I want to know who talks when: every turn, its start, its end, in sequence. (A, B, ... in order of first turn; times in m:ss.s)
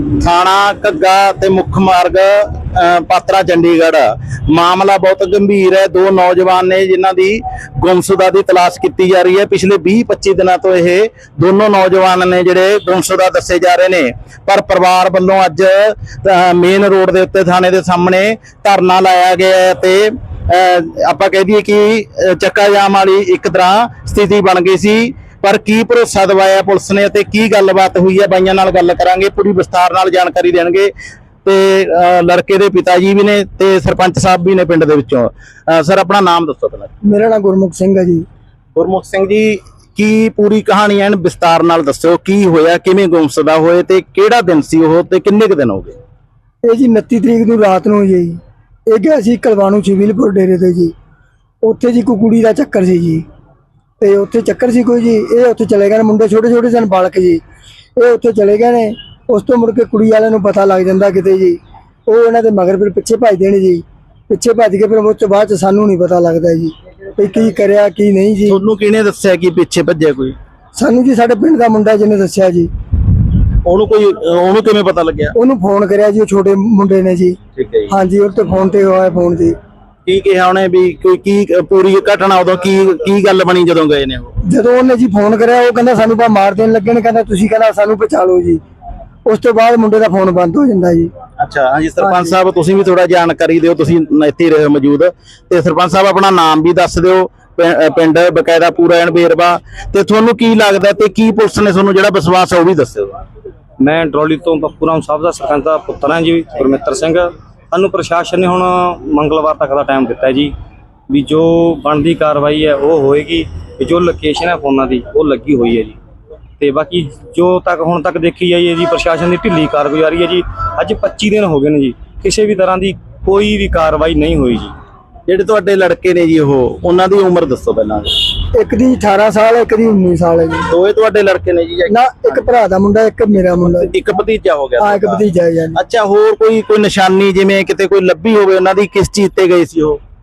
0:00.2-0:30.9 A
0:31.4-0:36.9 A
0:37.0-0:38.2 B
0:38.7-0:46.0 A
0:46.6-0:48.4 B
0:48.9-0:50.9 B
0:51.6-0:53.2 B
0:54.0-0:57.4 B
0:58.0-1:08.6 B
1:08.5-1:10.4 A
1:10.8-1:12.7 B
1:13.6-1:15.3 A
1:15.4-1:17.4 B
1:17.6-1:17.9 A
1:17.9-1:19.5 B
1:20.0-1:24.4 A
1:24.4-1:28.6 B
1:29.2-1:31.1 B
1:31.4-1:43.2 A
1:32.0-1:32.4 B
1:43.8-1:50.5 C
1:51.1-1:56.0 C
1:56.6-2:04.7 C
2:05.3-2:08.1 A
2:08.5-2:10.7 B
2:10.7-2:12.5 A
2:11.9-2:13.9 B
2:13.6-2:15.2 A
2:14.8-2:15.8 B
2:15.7-2:20.0 A